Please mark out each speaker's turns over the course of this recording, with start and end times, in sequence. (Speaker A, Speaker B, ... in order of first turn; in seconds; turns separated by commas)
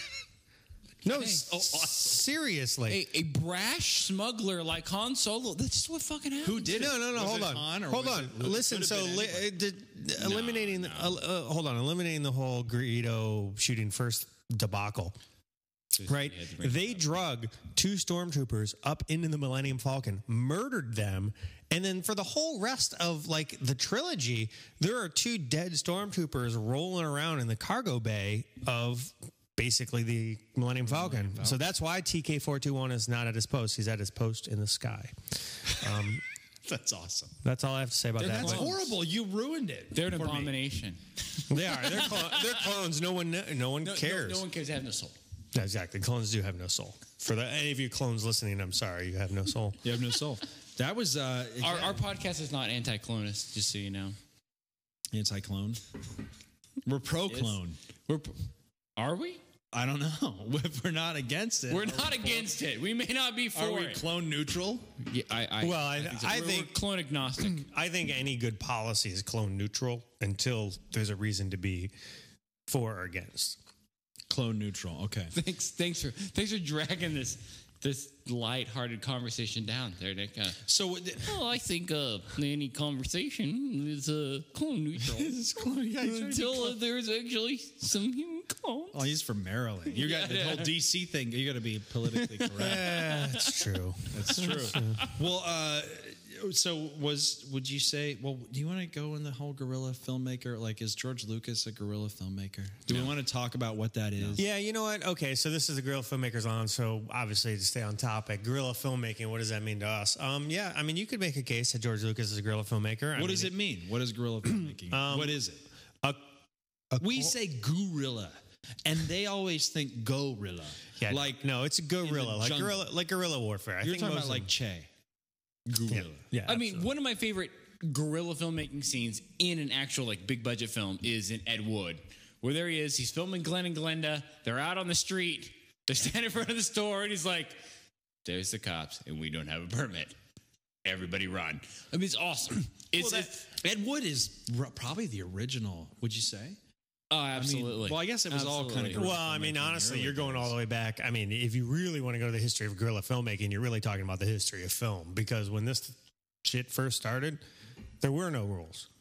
Speaker A: 1.0-3.0, Speaker B: 1.1-1.4, Speaker C: 1.1-2.2, Speaker B: 2.9-6.9, Speaker C: 6.4-9.5, Speaker A: 6.7-15.2, Speaker B: 10.2-11.2, Speaker B: 15.9-17.2, Speaker A: 16.1-36.2, Speaker C: 30.9-31.6, Speaker C: 35.7-36.1, Speaker C: 36.6-37.4, Speaker A: 37.4-38.7, Speaker B: 38.2-38.9, Speaker C: 38.2-40.5, Speaker B: 39.9-42.5, Speaker A: 41.5-44.5, Speaker B: 43.8-45.2, Speaker A: 45.5-49.8, Speaker C: 49.8-52.0, Speaker B: 51.6-54.2, Speaker C: 55.1-55.8, Speaker C: 56.9-57.8, Speaker B: 57.3-58.4, Speaker B: 59.0-59.4, Speaker C: 59.7-62.5, Speaker B: 61.7-64.0, Speaker C: 63.5-64.9, Speaker B: 65.0-67.7, Speaker A: 65.6-66.8, Speaker A: 67.4-71.9, Speaker A: 72.7-73.6, Speaker C: 74.3-75.3, Speaker B: 75.3-80.6, Speaker C: 80.7-81.3, Speaker B: 81.2-89.1, Speaker C: 85.2-86.8, Speaker C: 88.9-93.0, Speaker B: 89.9-90.7, Speaker B: 92.1-93.6, Speaker A: 92.6-95.0, Speaker C: 94.1-104.4, Speaker B: 94.3-95.2, Speaker A: 104.4-113.5, Speaker C: 113.2-115.6, Speaker A: 114.5-115.4, Speaker A: 116.9-117.3, Speaker C: 117.0-121.5, Speaker A: 121.0-124.5, Speaker C: 122.0-122.9, Speaker C: 123.8-124.9, Speaker C: 125.7-126.2, Speaker A: 125.9-126.9, Speaker B: 126.5-137.6, Speaker B: 138.2-140.2, Speaker B: 140.8-143.5, Speaker C: 143.0-146.6, Speaker B: 147.1-149.1, Speaker C: 147.4-150.5, Speaker A: 148.9-157.4, Speaker A: 158.0-158.9